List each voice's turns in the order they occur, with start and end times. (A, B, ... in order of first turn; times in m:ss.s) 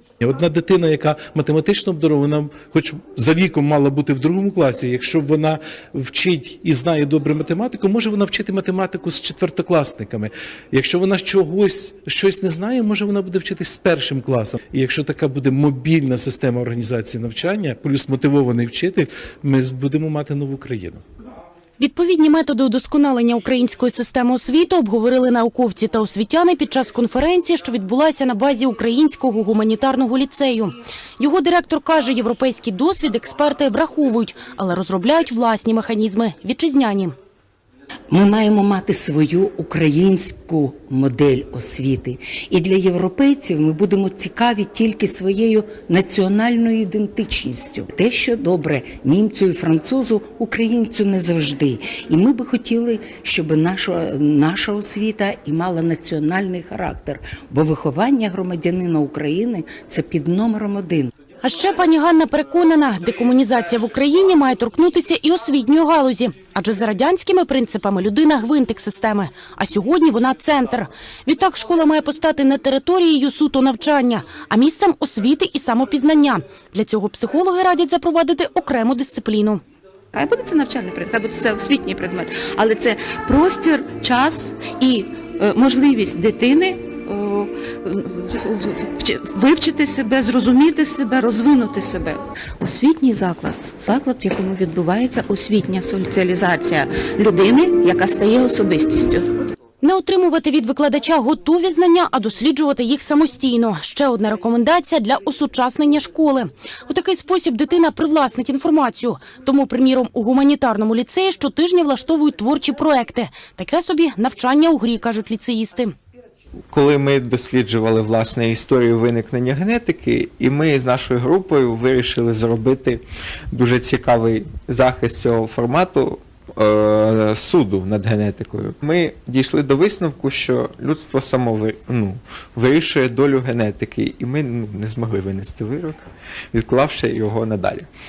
0:00.2-0:21.0 A
0:21.8-0:37.1 B
0:38.1-1:01.1 C
1:01.4-1:19.6 B
1:20.1-1:39.2 D
1:39.8-1:55.9 B
1:56.7-2:17.9 E